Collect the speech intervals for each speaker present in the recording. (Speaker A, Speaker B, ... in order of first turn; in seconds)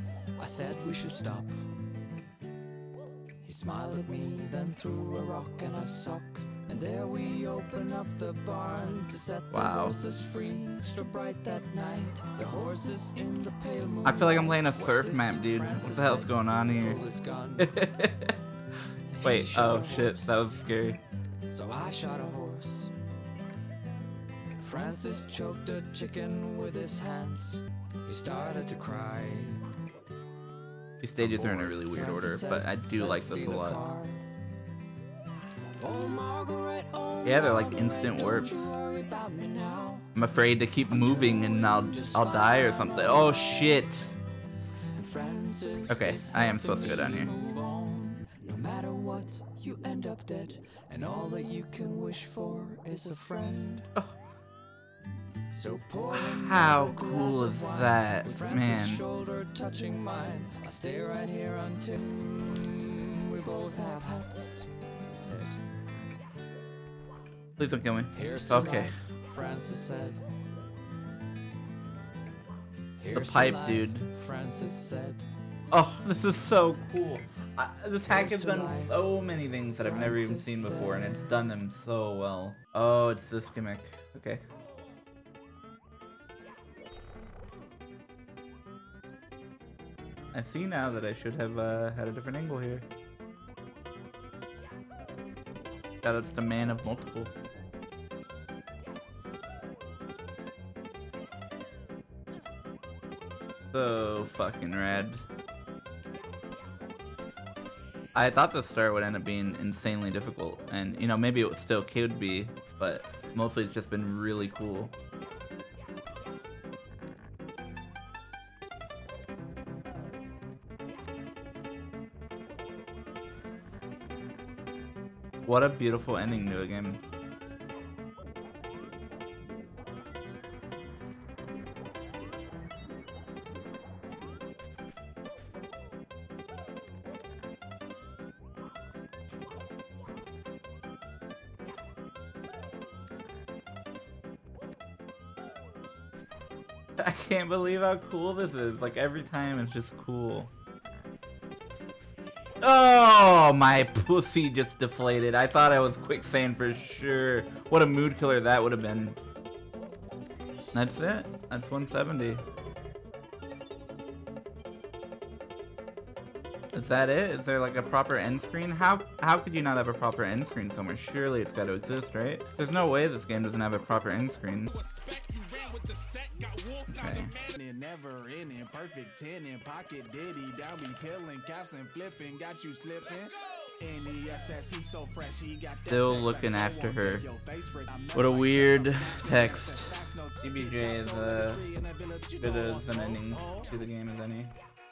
Speaker A: 0.4-1.6, 3.4-17.8, 19.1-20.4, 21.5-22.9, 24.6-29.6, 31.2-34.2, 35.8-40.1, 40.9-43.7, 45.0-53.9, 55.5-64.7, 65.3-65.6, 68.1-70.2, 73.0-75.3, 78.0-79.0, 79.8-81.3
Speaker B: 9.5-10.0, 14.0-17.0, 17.6-18.4, 19.2-21.0, 31.0-33.8, 37.2-38.7, 40.1-44.2, 45.9-47.4, 56.1-59.0, 67.6-68.9, 73.1-74.1, 75.7-84.4, 90.3-92.9, 96.0-97.3, 103.7-105.2, 108.2-114.9, 125.5-127.0, 147.0-150.5, 152.6-159.2, 160.7-162.4, 166.7-174.7, 176.9-177.3, 185.9-187.3, 188.1-191.7, 192.4-194.5
Speaker C: 174.8-176.9, 177.4-183.3, 183.9-185.9, 188.9-189.3